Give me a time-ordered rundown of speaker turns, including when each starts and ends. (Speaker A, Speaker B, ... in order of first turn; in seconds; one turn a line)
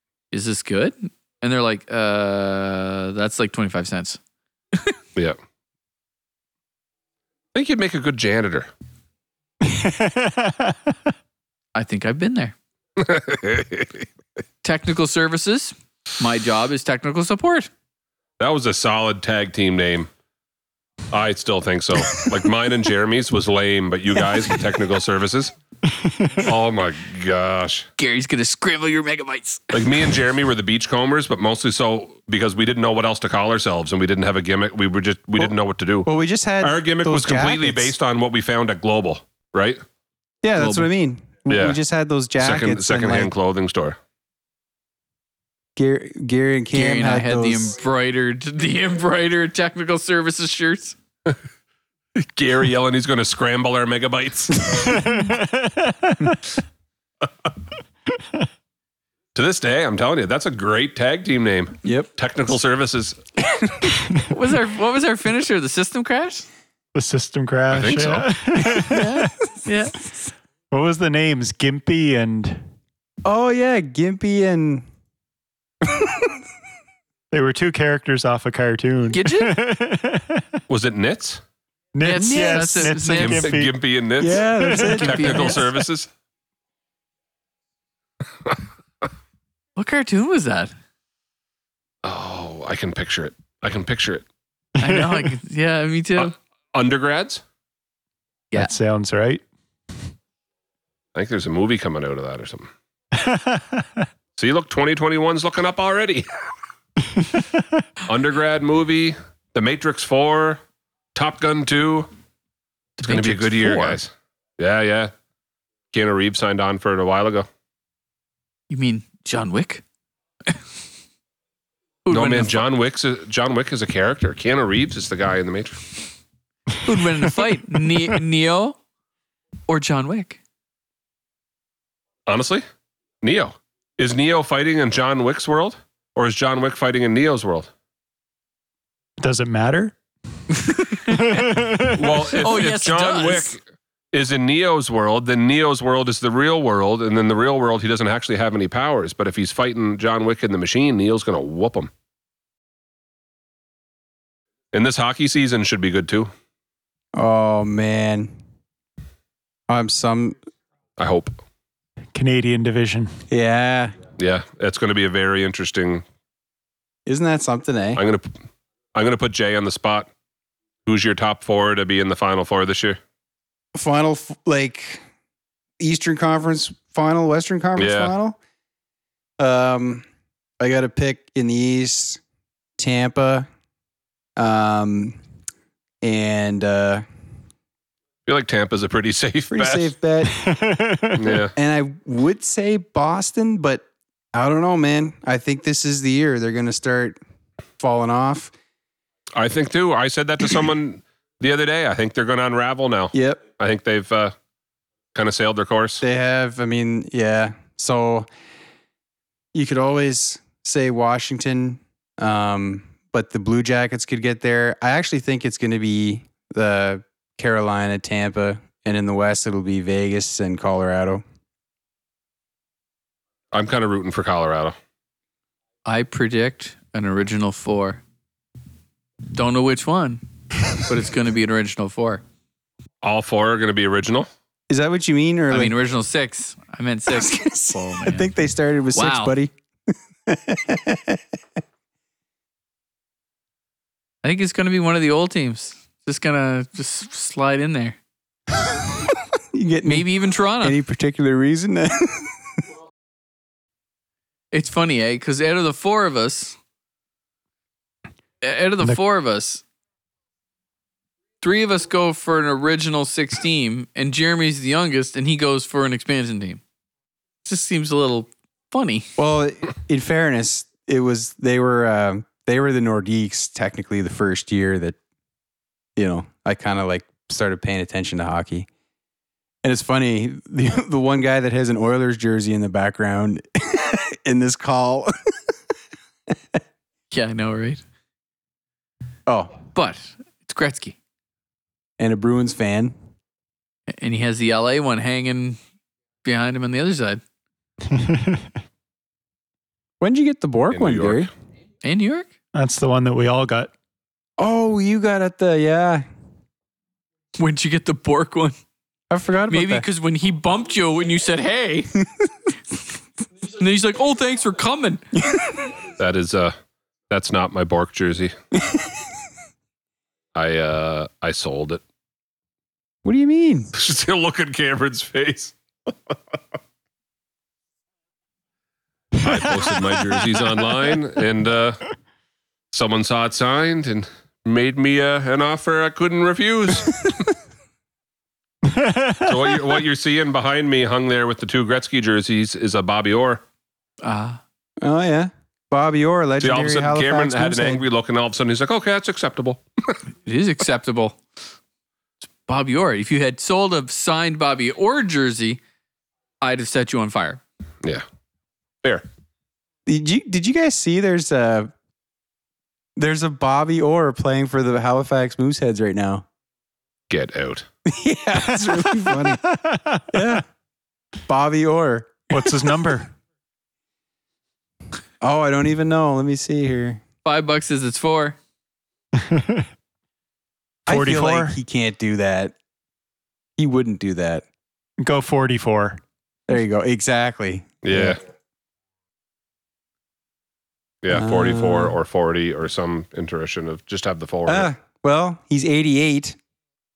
Speaker A: 0.3-4.2
Speaker B: 7.5-8.7
Speaker C: 9.6-10.9
Speaker A: 11.8-12.6
Speaker B: 13.0-14.0
Speaker A: 14.6-17.7
Speaker B: 18.4-20.1
Speaker B: 21.1-25.5
Speaker C: 25.9-26.5
Speaker B: 26.4-27.9
Speaker A: 28.0-30.0
Speaker B: 29.7-36.1
Speaker D: 36.1-37.9
Speaker B: 36.6-39.8
Speaker D: 40.4-43.3
Speaker A: 40.6-40.9
Speaker B: 41.5-41.8
Speaker B: 42.4-44.0
Speaker D: 45.8-47.8
Speaker A: 46.7-51.0
Speaker B: 52.2-55.0
Speaker C: 54.9-56.4
Speaker B: 59.4-63.2
Speaker D: 61.8-62.1
Speaker A: 64.3-66.5
Speaker C: 67.0-69.3
Speaker B: 67.7-68.3
Speaker A: 68.9-70.0
Speaker C: 70.7-72.6
Speaker D: 73.2-74.9
Speaker D: 75.9-76.3
Speaker C: 77.3-80.5
Speaker A: 79.1-79.5
Speaker B: 80.7-81.4
Speaker C: 82.0-83.8
Speaker A: 82.0-83.6
Speaker D: 82.2-82.9
Speaker B: 83.1-86.1
Speaker D: 84.2-85.6
Speaker C: 84.5-85.0
Speaker A: 85.0-85.6
Speaker A: 89.8-90.7
Speaker B: 92.0-94.2
Speaker A: 94.8-96.3
Speaker C: 94.8-95.3
Speaker B: 96.2-97.4
Speaker C: 98.5-99.4
Speaker B: 101.1-102.7
Speaker C: 103.1-104.0
Speaker B: 104.4-106.3
Speaker C: 107.2-107.4
Speaker B: 108.1-110.6
Speaker B: 111.1-112.1
Speaker A: 113.0-114.0
Speaker B: 113.0-115.1
Speaker B: 115.9-117.5
Speaker A: 118.7-119.8
Speaker A: 122.1-122.6
Speaker B: 122.1-125.8
Speaker A: 126.8-128.8
Speaker A: 129.7-130.4
Speaker B: 132.3-132.6
Speaker B: 133.2-137.7
Speaker C: 139.2-139.9
Speaker A: 140.5-141.6
Speaker C: 141.1-142.3
Speaker B: 141.9-143.6
Speaker A: 142.3-143.6
Speaker B: 144.1-151.9
Speaker B: 154.7-156.3
Speaker D: 157.1-158.3
Speaker D: 159.7-160.4
Speaker B: 161.0-161.4
Speaker C: 162.1-163.1
Speaker D: 163.3-164.0
Speaker B: 164.2-166.0
Speaker D: 167.1-168.0
Speaker B: 168.0-168.3
Speaker B: 168.9-170.1
Speaker B: 170.9-173.0
Speaker D: 173.8-175.0
Speaker D: 175.8-178.4
Speaker B: 177.8-178.1
Speaker D: 179.4-180.0
Speaker D: 180.6-182.2
Speaker D: 182.8-183.5
Speaker D: 184.4-185.2
Speaker D: 186.0-187.0
Speaker B: 188.3-189.9
Speaker D: 189.5-190.4
Speaker C: 190.3-191.4
Speaker B: 191.2-191.5
Speaker D: 191.6-197.2
Speaker D: 197.8-198.5
Speaker B: 199.4-204.3
Speaker D: 203.1-203.4
Speaker B: 205.1-206.0
Speaker D: 206.0-208.3
Speaker D: 209.5-221.2
Speaker B: 223.5-224.8
Speaker A: 225.8-228.0
Speaker A: 229.3-230.2
Speaker A: 230.8-232.2
Speaker B: 233.0-234.3
Speaker D: 234.7-235.8
Speaker A: 235.5-238.3
Speaker D: 237.1-239.5
Speaker A: 238.9-239.3
Speaker D: 240.3-241.2
Speaker A: 244.2-248.0
Speaker D: 249.5-250.1
Speaker A: 249.8-250.8
Speaker D: 250.6-252.3
Speaker A: 254.5-256.6
Speaker A: 258.4-259.6
Speaker A: 261.4-266.6
Speaker A: 267.4-269.1
Speaker D: 269.2-275.0
Speaker D: 276.0-278.7
Speaker D: 279.6-285.1
Speaker A: 287.1-287.8
Speaker D: 289.3-289.6
Speaker A: 289.7-291.0
Speaker D: 292.0-292.9
Speaker A: 293.9-295.6
Speaker A: 296.2-297.2
Speaker C: 297.9-298.5
Speaker D: 300.0-301.3
Speaker B: 300.7-301.3
Speaker A: 301.8-302.3
Speaker C: 302.6-303.7
Speaker D: 304.4-306.0
Speaker A: 307.4-308.6
Speaker D: 309.1-309.9
Speaker A: 309.5-311.9
Speaker A: 313.6-315.1
Speaker B: 316.0-316.6
Speaker B: 317.1-318.3
Speaker B: 320.4-321.8
Speaker D: 323.0-323.7
Speaker B: 323.8-325.5
Speaker B: 329.1-331.8
Speaker B: 332.7-337.0
Speaker C: 338.6-339.4
Speaker B: 339.3-343.4
Speaker A: 344.0-344.4
Speaker D: 344.8-347.8
Speaker B: 346.4-350.0
Speaker A: 350.3-351.2
Speaker A: 352.5-355.6
Speaker A: 356.4-357.4
Speaker D: 359.9-361.7
Speaker D: 363.0-366.2
Speaker B: 367.1-367.7
Speaker D: 367.9-369.5
Speaker C: 368.5-370.3
Speaker D: 370.1-370.4
Speaker D: 371.3-372.3
Speaker C: 372.3-373.1
Speaker D: 375.2-377.0
Speaker A: 377.2-378.4
Speaker C: 379.2-379.7
Speaker D: 380.9-382.5
Speaker C: 380.9-381.6
Speaker D: 383.6-384.4
Speaker C: 385.0-386.0
Speaker D: 386.5-388.2
Speaker B: 387.8-388.2
Speaker B: 391.0-394.7
Speaker D: 391.1-392.0
Speaker D: 394.5-396.4